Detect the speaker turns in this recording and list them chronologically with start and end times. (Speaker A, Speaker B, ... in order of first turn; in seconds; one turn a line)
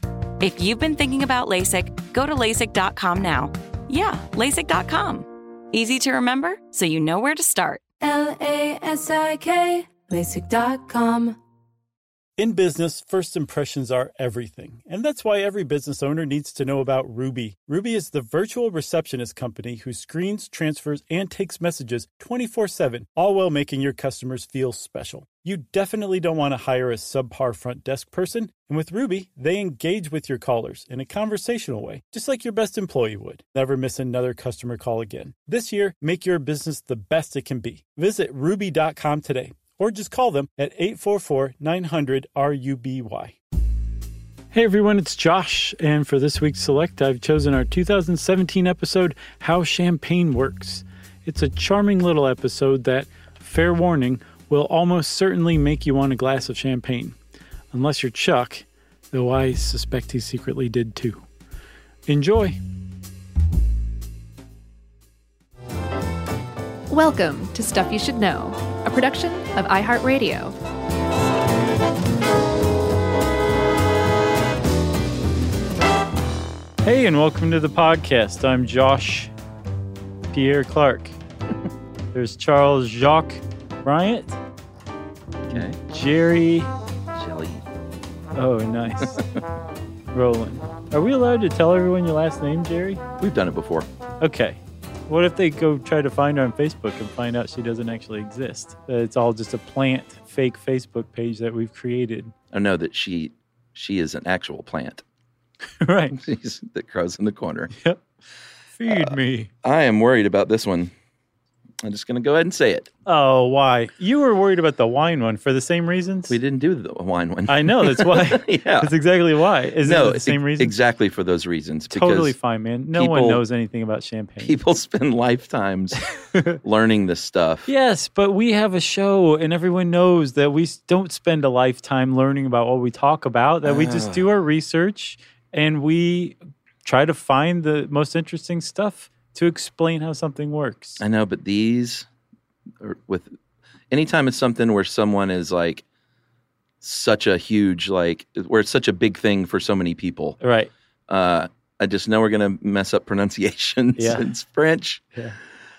Speaker A: 0.4-7.8
Speaker B: 8.0-11.4
Speaker C: 12.4-43.4
Speaker C: 44.5-57.2
Speaker C: 57.7-61.2
Speaker C: 62.1-62.6
Speaker D: 66.9-70.6
Speaker C: 76.8-79.3
Speaker C: 80.3-81.2
Speaker C: 82.1-84.4
Speaker E: 85.5-85.8
Speaker C: 85.5-86.7
Speaker E: 87.2-87.6
Speaker C: 88.3-89.2
Speaker C: 90.1-93.0
Speaker E: 93.2-93.9
Speaker C: 94.2-102.3
Speaker E: 102.5-105.0
Speaker C: 105.8-106.2
Speaker E: 106.1-107.7
Speaker C: 108.8-109.5
Speaker E: 108.9-110.9
Speaker E: 111.8-112.9
Speaker C: 113.1-116.4
Speaker E: 116.3-118.9
Speaker C: 117.5-120.8
Speaker E: 119.8-122.3
Speaker C: 121.9-124.6
Speaker E: 122.9-123.4
Speaker E: 124.4-126.0
Speaker E: 126.6-127.7
Speaker C: 127.7-141.0
Speaker E: 133.7-134.3
Speaker E: 141.0-142.1
Speaker E: 142.8-143.3
Speaker E: 143.9-145.8
Speaker E: 146.8-150.4
Speaker C: 150.4-150.7
Speaker E: 151.1-155.0
Speaker C: 154.0-154.3